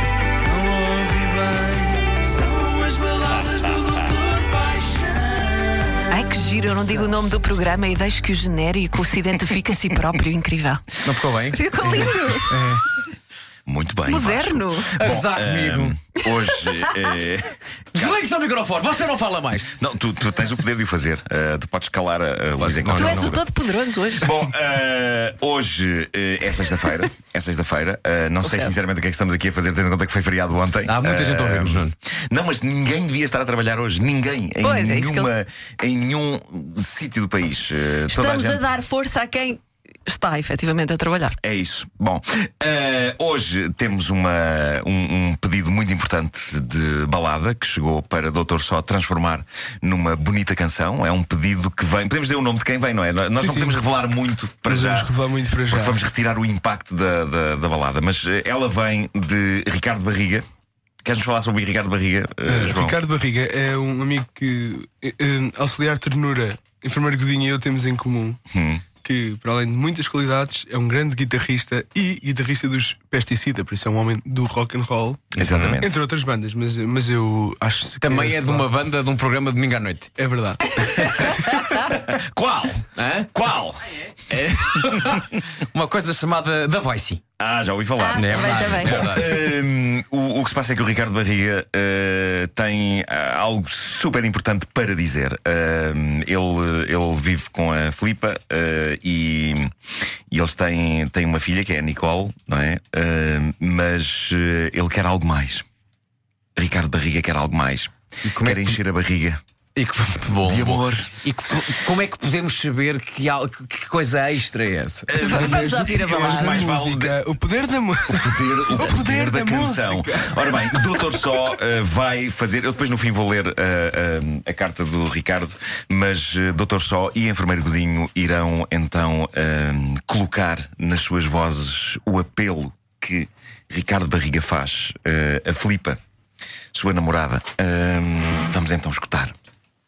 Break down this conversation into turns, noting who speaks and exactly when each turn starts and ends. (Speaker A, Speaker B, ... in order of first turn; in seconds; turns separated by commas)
Speaker A: 0.4-6.2, Speaker B: 6.1-11.0, Speaker C: 6.8-7.4, Speaker D: 11.0-12.2, Speaker B: 11.5-12.6, Speaker E: 12.1-12.8, Speaker C: 13.7-18.2, Speaker B: 14.1-14.9, Speaker D: 15.0-15.9, Speaker D: 17.9-19.7, Speaker C: 19.8-23.4, Speaker D: 22.6-23.4, Speaker B: 23.0-24.3, Speaker C: 24.2-38.6, Speaker D: 30.9-31.9, Speaker B: 34.6-35.3, Speaker B: 38.1-41.4, Speaker C: 41.4-55.1, Speaker E: 53.3-53.8, Speaker E: 54.6-56.0, Speaker C: 55.7-60.4, Speaker C: 61.0-63.0, Speaker E: 62.5-68.4, Speaker C: 68.5-68.8, Speaker E: 69.0-78.7, Speaker C: 75.3-75.9, Speaker D: 75.4-75.8, Speaker D: 78.0-80.1, Speaker E: 80.2-81.2, Speaker D: 80.8-81.2, Speaker C: 81.8-84.0, Speaker D: 83.0-83.3, Speaker D: 84.3-87.2, Speaker C: 84.6-85.2, Speaker C: 87.4-99.7, Speaker B: 88.0-89.2, Speaker D: 88.1-89.3, Speaker C: 100.3-105.6, Speaker C: 106.5-109.4, Speaker D: 108.2-108.8, Speaker D: 109.8-115.1, Speaker C: 110.4-111.1, Speaker C: 115.1-117.2, Speaker B: 115.2-116.6, Speaker E: 115.3-120.9, Speaker C: 118.1-136.0, Speaker C: 136.7-139.3